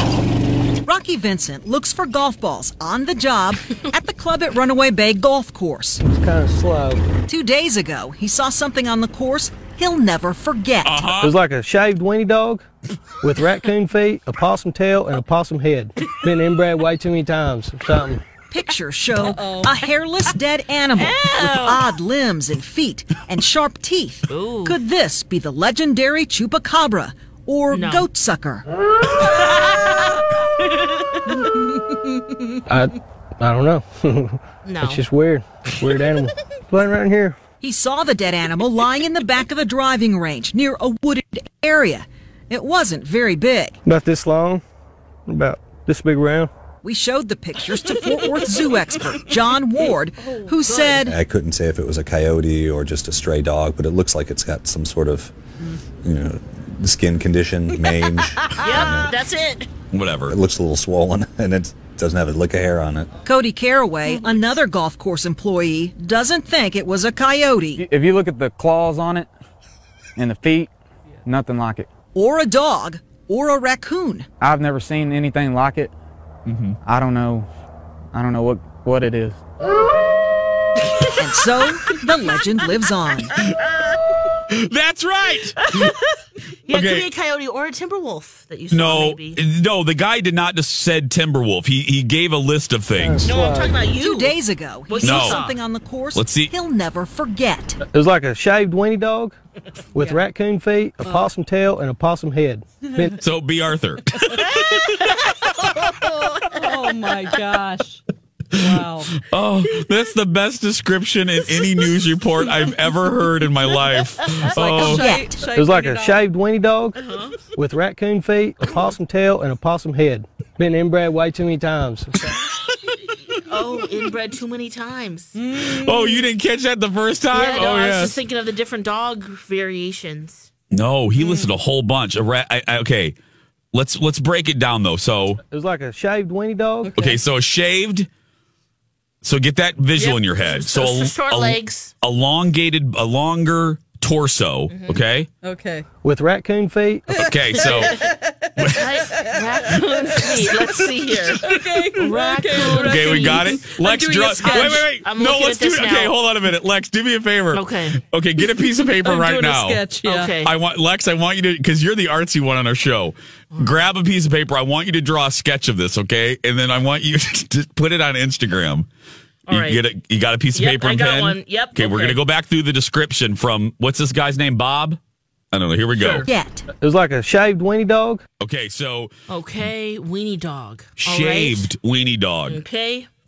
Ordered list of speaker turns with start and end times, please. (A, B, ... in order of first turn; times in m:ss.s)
0:00.8-0:06.0 A
0:06.0-0:07.0 B
0:07.3-0:11.1 A
0:10.8-0:11.3 C
0:11.2-0:12.7 B
0:13.2-0:18.2 B
0:18.5-0:28.6 A
0:19.1-0:19.8 D
0:21.0-0:21.9 E
0:24.3-0:24.8 E
0:27.7-0:28.1 E
0:29.2-0:30.0 E
0:32.7-0:37.4 B
0:34.6-0:35.0 E
0:37.6-0:43.8 A
0:43.8-0:44.6 B
0:45.3-0:46.5 B
0:46.8-0:51.2 A
0:50.2-0:51.1 E
0:51.1-0:55.2 F
0:57.0-0:58.1 F
0:58.5-0:59.7 E
0:58.8-0:59.1 F
0:59.9-1:00.4 C
1:00.3-1:03.0 F
1:03.2-1:07.8 A
1:07.8-1:09.3 G
1:10.2-1:10.7 G
1:11.2-1:11.9 G
1:12.1-1:14.2 A
1:14.4-1:15.9 G
1:16.5-1:17.5 G
1:18.1-1:19.4 G
1:21.2-1:23.3 A
1:24.5-1:25.9 C
1:25.6-1:26.0 E
1:26.7-1:29.4 E
1:26.7-1:27.1 C
1:28.7-1:33.3 C
1:33.0-1:33.8 B
1:33.2-1:35.5 E
1:33.9-1:37.8 A
1:35.0-1:35.4 C
1:36.1-1:36.5 C
1:37.9-1:39.4 B
1:39.9-1:43.1 B
1:41.0-1:41.3 D
1:43.2-1:44.9 C
1:46.0-1:46.4 E
1:46.4-1:48.0 D
1:48.5-1:55.1 C
1:48.5-1:49.1 D
1:54.5-1:56.2 D
1:54.8-1:55.4 A
1:55.4-1:57.0 B
1:57.0-1:57.3 E
1:57.5-2:02.1 B
2:03.4-2:05.3 E
2:05.3-2:06.3 D
2:05.5-2:08.2 C
2:07.3-2:10.5 E
2:10.7-2:13.2 C
2:13.7-2:15.4 C
2:15.5-2:17.0 B
2:16.8-2:17.2 D
2:17.0-2:18.1 C
2:19.2-2:25.3 C
2:20.0-2:21.9 E
2:24.7-2:25.0 E
2:25.4-2:25.8 D
2:26.0-2:27.3 B
2:27.2-2:28.0 C
2:27.2-2:30.4 D
2:28.6-2:28.8 C
2:28.7-2:33.7 E
2:31.4-2:34.9 D
2:32.7-2:39.9 C
2:34.4-2:36.2 E
2:37.5-2:38.0 E
2:38.6-2:40.4 D
2:40.0-2:40.5 E
2:40.4-2:48.9 C
2:43.5-2:43.8 E
2:49.5-2:49.8 E
2:49.5-2:55.0 C
2:50.5-2:52.2 E
2:55.5-2:56.3 C
2:56.2-2:56.6 A
2:56.8-2:58.2 B
2:58.4-2:59.1 C
2:59.3-3:01.7 E
3:01.0-3:02.6 C
3:02.5-3:03.1 E